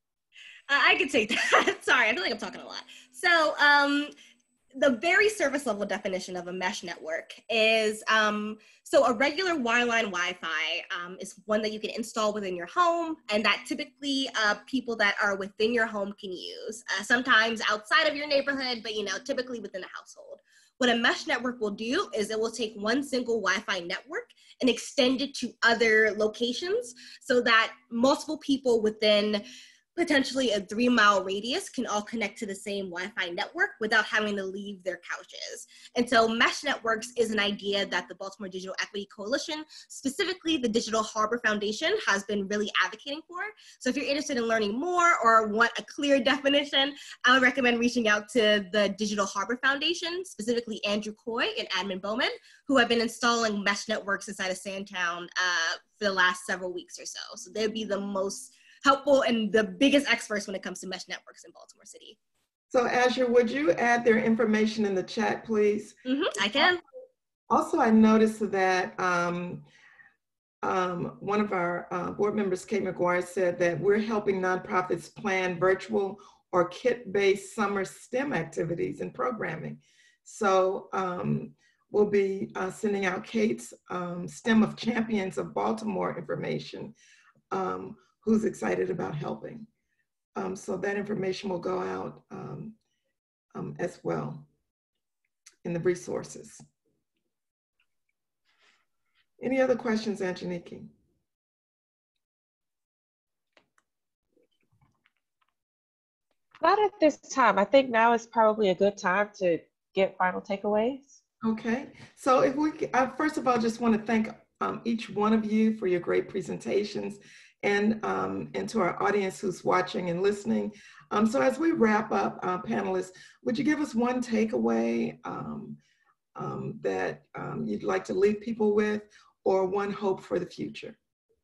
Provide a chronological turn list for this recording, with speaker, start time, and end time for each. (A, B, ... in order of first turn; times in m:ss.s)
0:00.7-0:04.1 A
0:04.7-0:29.4 A
0:30.0-1:02.2 A
1:02.7-1:06.0 B
1:06.1-1:06.8 A
1:07.5-1:09.6 B
1:10.6-1:27.0 B
1:27.5-1:29.7 B
1:30.4-1:32.8 B
1:33.5-1:34.5 B
1:35.6-1:36.6 B
1:39.4-1:40.9 B
1:46.6-1:51.2 C
1:51.4-2:05.8 B
2:06.4-2:11.0 B